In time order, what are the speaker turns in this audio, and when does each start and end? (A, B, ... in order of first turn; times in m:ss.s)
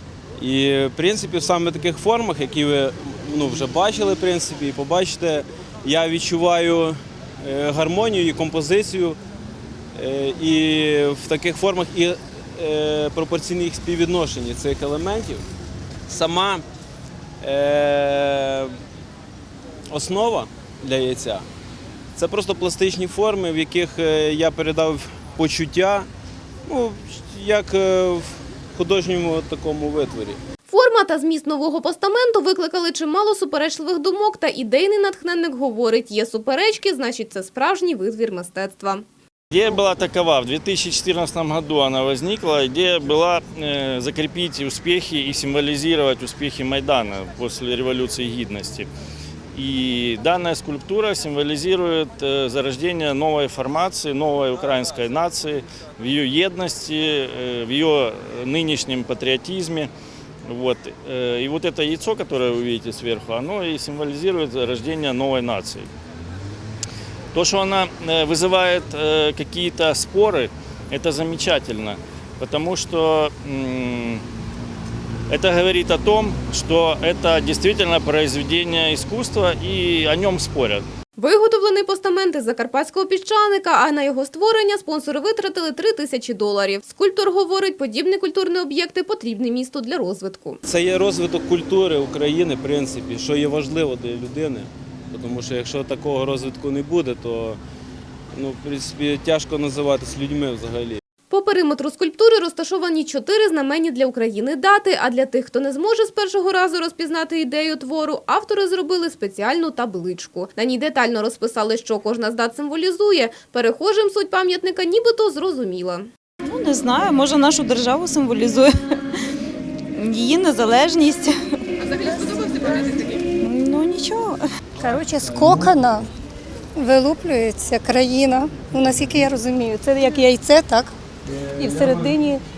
0:00.4-0:09.2 A
0:09.9-0:15.4 A
0:16.1-0:16.6 A
0:17.4-0:18.7 A
0:19.9-0:21.4 A
0:22.1-0:26.1 A
0:26.6-0:30.4 A
0:30.7-0:39.0 B
0:39.5-0:48.9 C
0:49.5-0:59.9 C
1:00.5-1:05.9 C
1:07.3-1:14.2 C
1:15.3-1:20.8 C
1:21.2-1:30.6 B
1:30.6-1:37.6 A
1:38.3-1:41.0 A
1:41.3-1:56.1 B
1:56.4-1:59.0 D
1:59.9-2:04.4 D
2:04.8-2:06.1 E
2:06.8-2:10.9 E
2:11.6-2:12.4 E